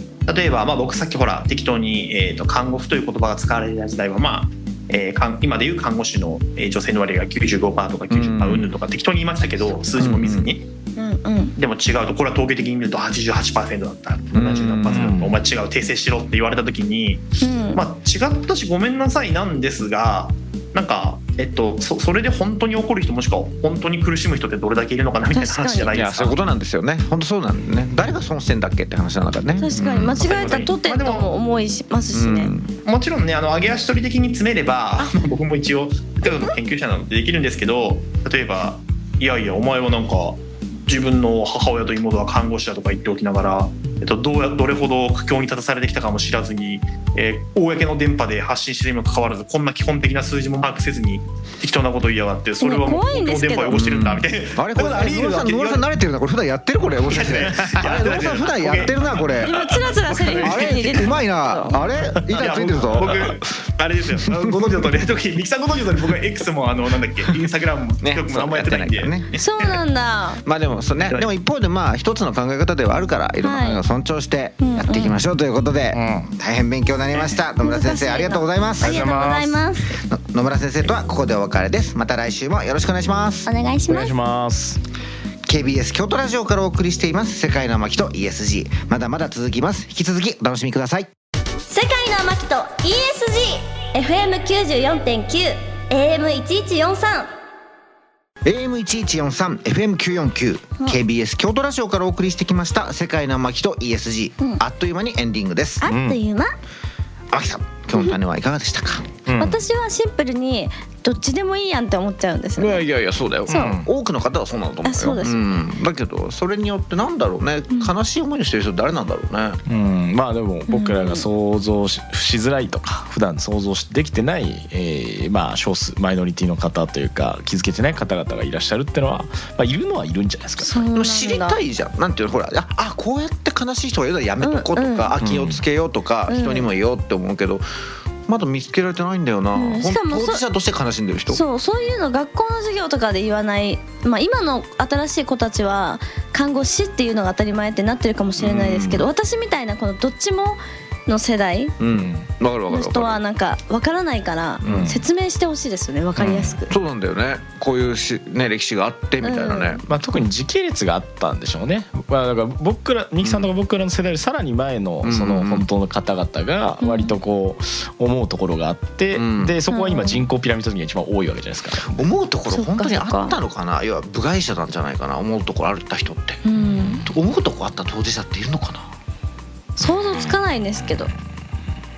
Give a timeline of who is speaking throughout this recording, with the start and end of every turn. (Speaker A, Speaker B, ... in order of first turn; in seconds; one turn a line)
Speaker A: 0.3-10.6
Speaker B: 8.1-8.7
Speaker B: 10.0-10.5
Speaker C: 11.0-11.6
Speaker A: 11.6-26.4
Speaker B: 14.3-15.3
Speaker D: 14.9-15.3
Speaker C: 17.4-17.8
Speaker C: 25.3-25.9
Speaker B: 25.9-30.2
Speaker C: 29.6-32.5
Speaker A: 30.2-31.3
Speaker B: 32.1-32.7
Speaker A: 32.9-55.9
Speaker C: 52.6-53.8
Speaker B: 53.7-59.6
Speaker A: 57.0-60.9
Speaker C: 59.4-61.8
Speaker B: 60.4-63.2
Speaker A: 62.3-69.8
Speaker B: 64.3-64.6
Speaker B: 68.0-69.2
Speaker C: 69.4-70.4
Speaker B: 70.5-79.1
Speaker C: 73.4-73.8
Speaker C: 74.6-75.2
Speaker D: 75.9-76.3
Speaker C: 77.6-80.0
Speaker D: 78.8-79.7
Speaker B: 80.0-83.5
Speaker C: 83.5-84.1
Speaker D: 83.9-84.8
Speaker B: 85.5-91.1
Speaker C: 91.7-97.3
Speaker B: 98.4-105.9
Speaker C: 105.8-106.5
Speaker D: 105.8-106.2
Speaker B: 107.3-109.1
Speaker D: 109.3-109.6
Speaker C: 109.4-112.9
Speaker B: 112.6-119.6
Speaker C: 113.5-113.8
Speaker D: 113.5-113.9
Speaker C: 114.8-115.5
Speaker D: 119.7-130.8
Speaker C: 120.7-121.3
Speaker C: 130.6-131.6
Speaker B: 130.9-137.7
Speaker C: 134.4-135.1
Speaker D: 135.2-135.6
Speaker C: 136.3-136.7
Speaker B: 138.3-141.4
Speaker C: 139.6-140.4
Speaker C: 141.3-151.8
Speaker D: 148.4-149.1
Speaker B: 151.8-153.2
Speaker D: 151.9-152.3
Speaker C: 152.7-156.7
Speaker B: 154.6-154.9
Speaker D: 154.6-155.0
Speaker B: 156.2-159.8
Speaker C: 159.2-159.8
Speaker D: 159.8-172.0
Speaker B: 163.2-163.5
Speaker B: 165.0-165.7
Speaker C: 166.8-167.2
Speaker B: 169.1-169.6
Speaker C: 169.7-170.2
Speaker B: 171.8-176.4
Speaker C: 172.5-173.4
Speaker C: 176.4-177.1
Speaker D: 176.6-177.1
Speaker B: 177.1-178.9
Speaker C: 179.8-181.1